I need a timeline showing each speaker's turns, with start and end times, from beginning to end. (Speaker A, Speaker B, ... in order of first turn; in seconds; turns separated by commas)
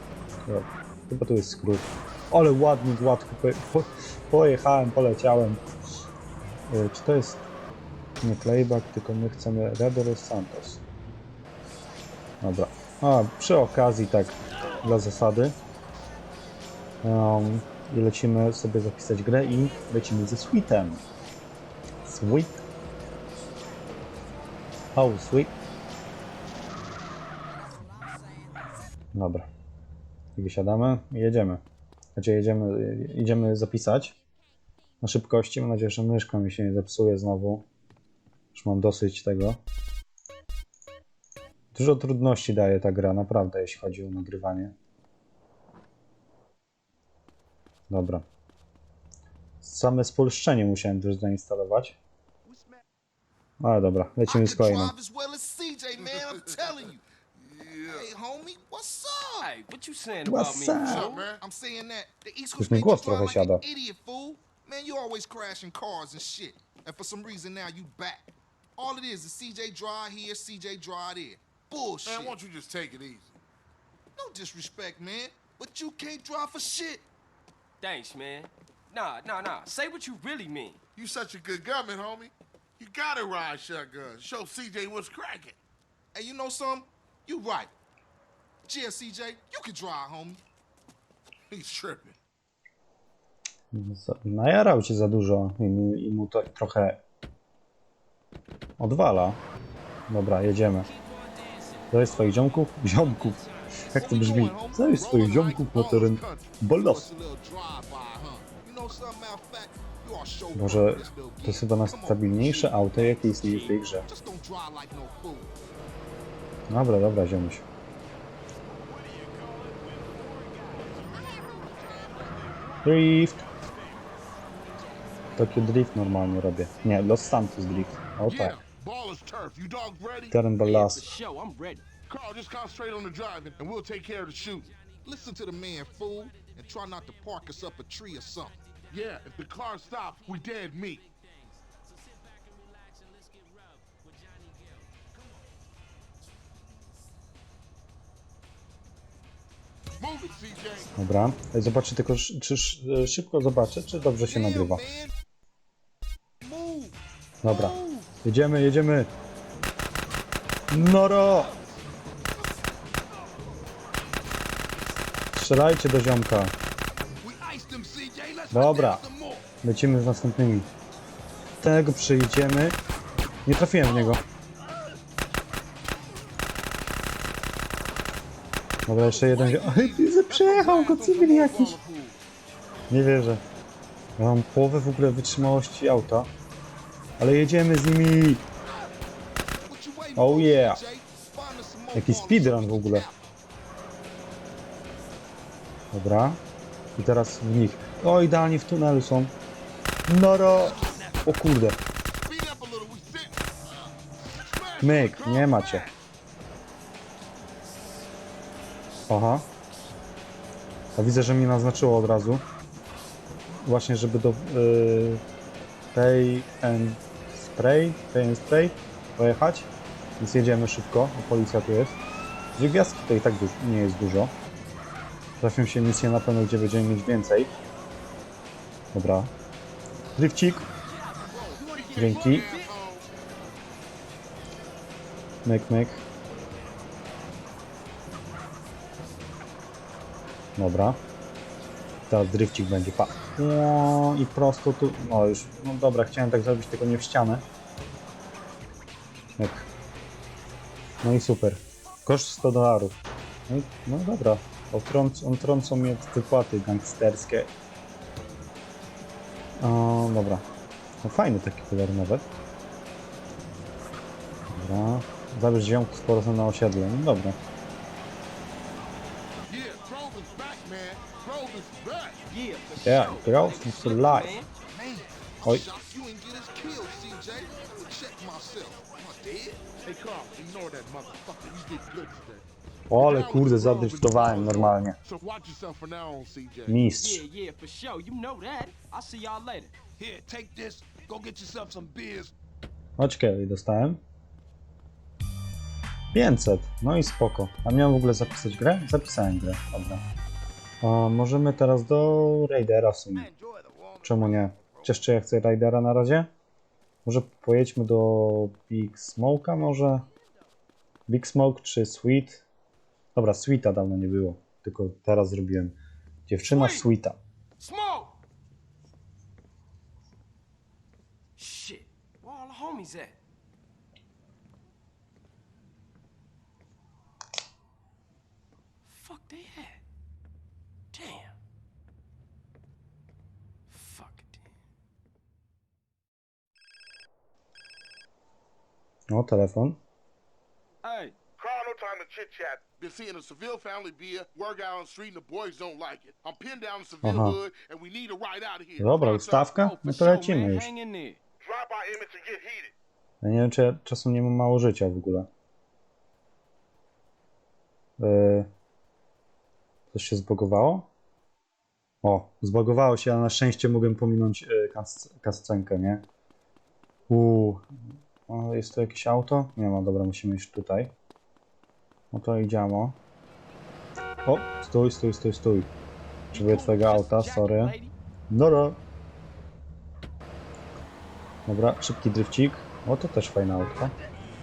Speaker A: 0.5-5.6, Speaker A: 6.7-7.5, Speaker A: 8.2-10.8, Speaker A: 12.4-15.6, Speaker A: 17.0-21.0, Speaker A: 22.1-22.6, Speaker A: 24.9-25.5, Speaker A: 29.1-29.5, Speaker A: 30.4-31.6, Speaker A: 32.1-34.1, Speaker A: 35.0-37.7, Speaker A: 38.5-39.6, Speaker A: 41.7-44.7, Speaker A: 47.9-48.2, Speaker A: 49.6-52.0, Speaker B: 52.5-52.8, Speaker A: 53.6-54.9, Speaker C: 54.2-57.0, Speaker B: 57.3-58.1, Speaker C: 57.8-59.5, Speaker D: 59.4-61.2, Speaker A: 60.2-61.1, Speaker B: 60.8-61.4, Speaker C: 60.9-72.3, Speaker A: 62.6-63.6, Speaker B: 72.0-73.4, Speaker C: 74.2-77.0, Speaker D: 77.8-80.8, Speaker B: 81.0-85.6, Speaker C: 86.1-87.7, Speaker C: 88.7-90.4, Speaker B: 91.5-92.2, Speaker A: 93.7-97.0, Speaker A: 98.8-99.4, Speaker A: 100.1-100.9, Speaker D: 100.9-103.5, Speaker A: 101.9-107.1, Speaker C: 104.0-112.9, Speaker B: 105.0-106.5, Speaker A: 110.5-114.0, Speaker D: 112.9-113.8, Speaker C: 114.0-115.5, Speaker A: 116.7-117.6, Speaker A: 122.8-123.4, Speaker A: 125.3-128.6, Speaker B: 128.3-130.4, Speaker A: 130.3-131.1, Speaker D: 130.6-131.9, Speaker B: 132.1-134.8, Speaker C: 135.0-138.6, Speaker B: 138.9-141.1, Speaker B: 150.0-150.9, Speaker A: 151.0-154.8, Speaker C: 154.3-155.1, Speaker C: 156.4-156.9, Speaker A: 157.4-159.1, Speaker B: 157.5-158.1, Speaker A: 160.7-161.5, Speaker A: 165.3-166.5, Speaker B: 167.2-169.4, Speaker A: 168.5-169.0, Speaker A: 169.6-170.7, Speaker A: 171.6-172.8, Speaker A: 173.4-174.2, Speaker A: 178.9-181.8, Speaker B: 178.9-182.2, Speaker A: 182.9-183.4, Speaker A: 184.2-186.3, Speaker A: 187.2-188.4, Speaker C: 189.6-193.2, Speaker A: 190.2-190.8, Speaker A: 191.9-193.1, Speaker A: 195.9-196.4, Speaker A: 196.9-199.3, Speaker A: 200.1-201.8, Speaker B: 200.6-201.2, Speaker B: 202.2-203.4, Speaker B: 204.3-206.0, Speaker A: 204.8-205.8, Speaker A: 209.1-209.5, Speaker A: 211.0-212.4, Speaker A: 213.6-215.2, Speaker A: 215.9-222.0, Speaker A: 222.5-224.3, Speaker A: 225.4-227.5, Speaker A: 228.9-229.3, Speaker A: 230.2-230.7, Speaker D: 230.8-232.7, Speaker B: 231.5-233.0, Speaker A: 231.9-232.5, Speaker A: 235.4-236.0, Speaker A: 240.6-241.0, Speaker A: 242.1-247.4, Speaker A: 249.3-249.7, Speaker A: 251.0-257.5, Speaker A: 259.6-260.4, Speaker A: 261.0-262.3, Speaker A: 264.5-267.4, Speaker B: 269.5-272.2, Speaker D: 272.3-274.5, Speaker A: 272.8-274.4, Speaker C: 274.7-279.7, Speaker B: 279.8-286.8, Speaker A: 282.9-285.0, Speaker A: 286.7-287.2, Speaker D: 287.0-289.7, Speaker B: 290.0-292.3, Speaker A: 293.0-294.0, Speaker A: 296.1-300.0, Speaker A: 300.8-303.3, Speaker C: 303.3-304.4, Speaker B: 303.3-304.9, Speaker A: 304.0-306.3, Speaker A: 307.0-310.1, Speaker A: 311.1-312.4, Speaker A: 313.1-315.7, Speaker A: 316.3-317.2, Speaker D: 316.5-316.9, Speaker D: 317.6-318.1, Speaker D: 321.4-323.1, Speaker D: 328.8-329.8, Speaker D: 330.9-331.3, Speaker D: 333.7-334.4, Speaker A: 339.1-339.8, Speaker D: 340.8-341.2, Speaker B: 341.4-349.6, Speaker A: 347.0-347.4, Speaker A: 348.8-350.7, Speaker D: 349.6-351.2, Speaker B: 351.4-352.7, Speaker A: 353.2-355.3, Speaker A: 358.0-358.5, Speaker A: 359.9-360.9, Speaker A: 362.0-366.1, Speaker A: 367.1-367.6, Speaker A: 368.3-370.9, Speaker A: 372.1-373.0, Speaker A: 374.2-375.7, Speaker D: 376.3-377.9, Speaker A: 376.3-377.8, Speaker A: 378.3-378.8, Speaker A: 381.5-383.9